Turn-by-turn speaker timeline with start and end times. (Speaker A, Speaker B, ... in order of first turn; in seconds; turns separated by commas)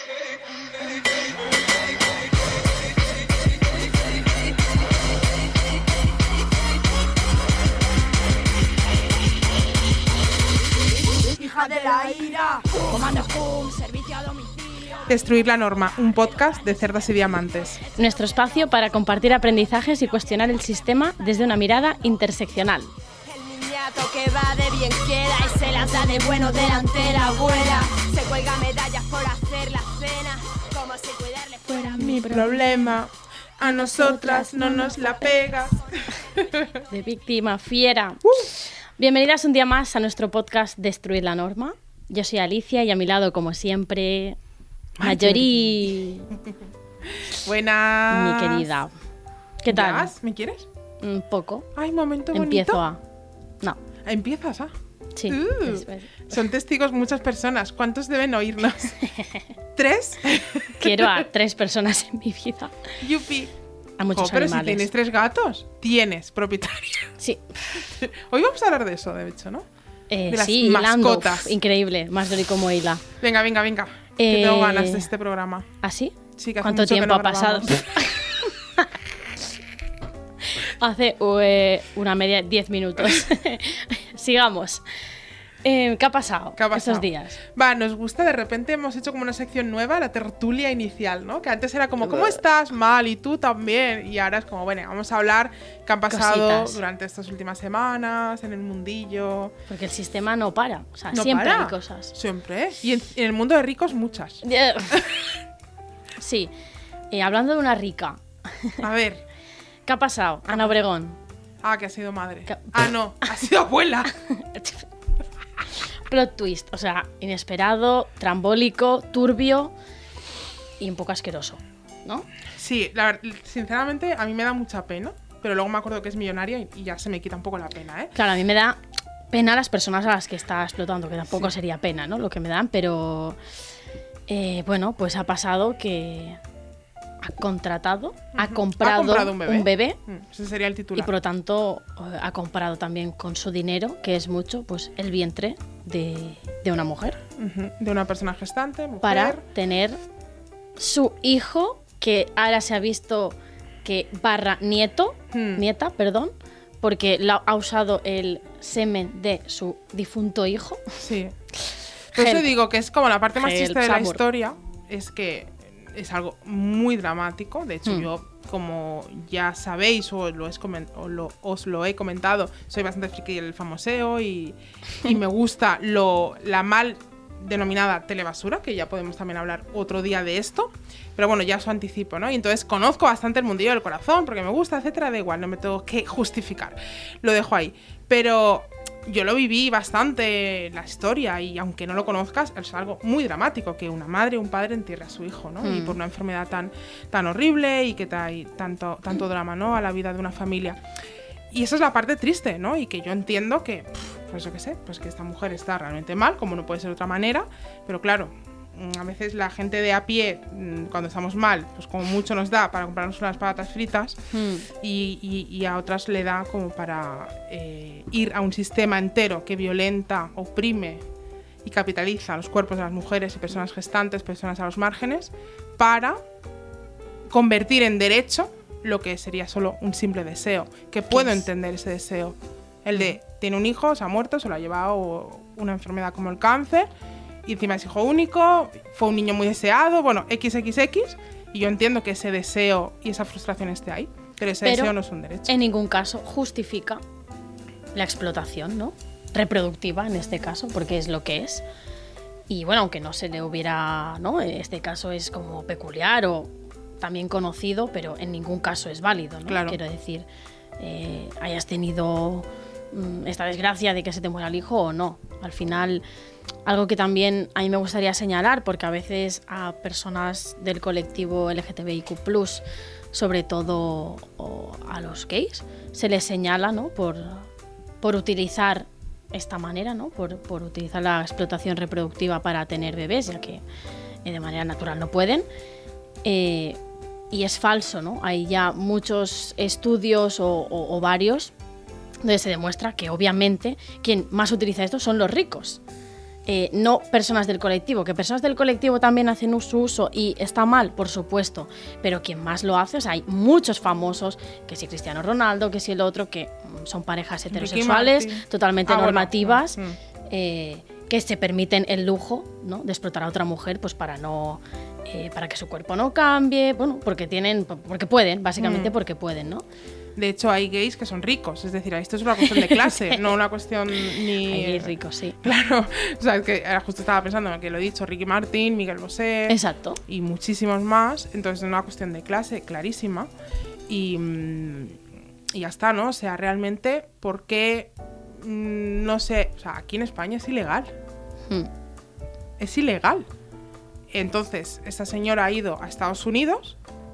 Speaker A: 11.3-15.2, Speaker B: 15.1-17.8, Speaker A: 16.1-16.9, Speaker C: 17.9-22.9, Speaker A: 23.3-32.5, Speaker B: 32.0-36.6, Speaker C: 32.1-32.4, Speaker C: 33.7-34.9, Speaker C: 36.9-44.4, Speaker B: 38.2-38.5, Speaker B: 45.0-45.9, Speaker C: 45.0-46.3, Speaker B: 47.0-48.7, Speaker C: 48.1-48.9, Speaker C: 49.6-50.1, Speaker B: 49.7-50.7, Speaker C: 51.0-51.7, Speaker B: 51.7-52.8, Speaker C: 52.3-53.0, Speaker B: 54.0-54.7, Speaker C: 55.2-56.4, Speaker B: 55.3-59.0, Speaker C: 59.0-59.4, Speaker B: 59.8-61.2, Speaker C: 60.8-62.7, Speaker B: 63.0-63.5, Speaker C: 64.0-64.9, Speaker B: 64.1-67.1, Speaker C: 67.2-67.4, Speaker B: 67.9-69.7, Speaker C: 70.1-73.0, Speaker B: 70.3-71.5, Speaker B: 73.2-75.7, Speaker C: 74.2-75.1, Speaker C: 75.8-78.9, Speaker B: 76.4-77.8, Speaker C: 80.5-84.8, Speaker C: 85.6-87.4, Speaker B: 86.6-99.5, Speaker C: 92.1-92.3, Speaker C: 96.1-96.8, Speaker C: 99.7-102.1, Speaker B: 101.1-105.3, Speaker C: 104.4-105.0, Speaker C: 106.2-106.5, Speaker C: 107.1-108.8, Speaker B: 108.8-109.2, Speaker C: 109.9-111.2, Speaker B: 110.5-110.7, Speaker B: 111.6-114.1, Speaker C: 112.5-112.9, Speaker C: 114.3-114.9, Speaker C: 116.1-119.7, Speaker C: 120.8-122.3, Speaker B: 122.5-128.1, Speaker C: 128.1-128.8, Speaker C: 129.3-133.4, Speaker C: 134.3-136.4, Speaker C: 137.2-140.0, Speaker B: 138.3-141.1, Speaker C: 140.9-147.2, Speaker B: 147.4-149.4, Speaker C: 149.0-150.0, Speaker C: 150.8-160.8, Speaker B: 155.3-155.6, Speaker B: 161.0-161.3, Speaker C: 161.6-162.5, Speaker B: 162.1-200.8, Speaker C: 163.3-164.2, Speaker C: 195.6-196.0, Speaker B: 201.5-214.2, Speaker C: 214.3-214.7, Speaker B: 214.8-221.0, Speaker B: 221.6-226.2, Speaker B: 227.3-236.9, Speaker C: 231.1-231.4, Speaker B: 237.4-245.6, Speaker C: 244.6-244.9, Speaker C: 245.5-247.0, Speaker C: 247.9-251.6, Speaker C: 252.5-260.3, Speaker B: 259.4-259.8, Speaker C: 260.8-266.0, Speaker C: 266.6-277.5, Speaker C: 278.0-283.6, Speaker C: 284.2-285.4, Speaker C: 286.2-286.8, Speaker C: 287.3-291.5, Speaker C: 292.2-295.8, Speaker C: 296.5-309.8, Speaker B: 307.5-310.0, Speaker C: 310.3-319.6, Speaker B: 318.6-318.9, Speaker B: 320.1-333.3, Speaker C: 322.5-323.3, Speaker C: 323.9-325.4, Speaker C: 329.5-330.0, Speaker B: 333.9-340.9, Speaker B: 342.6-343.3, Speaker B: 344.1-346.8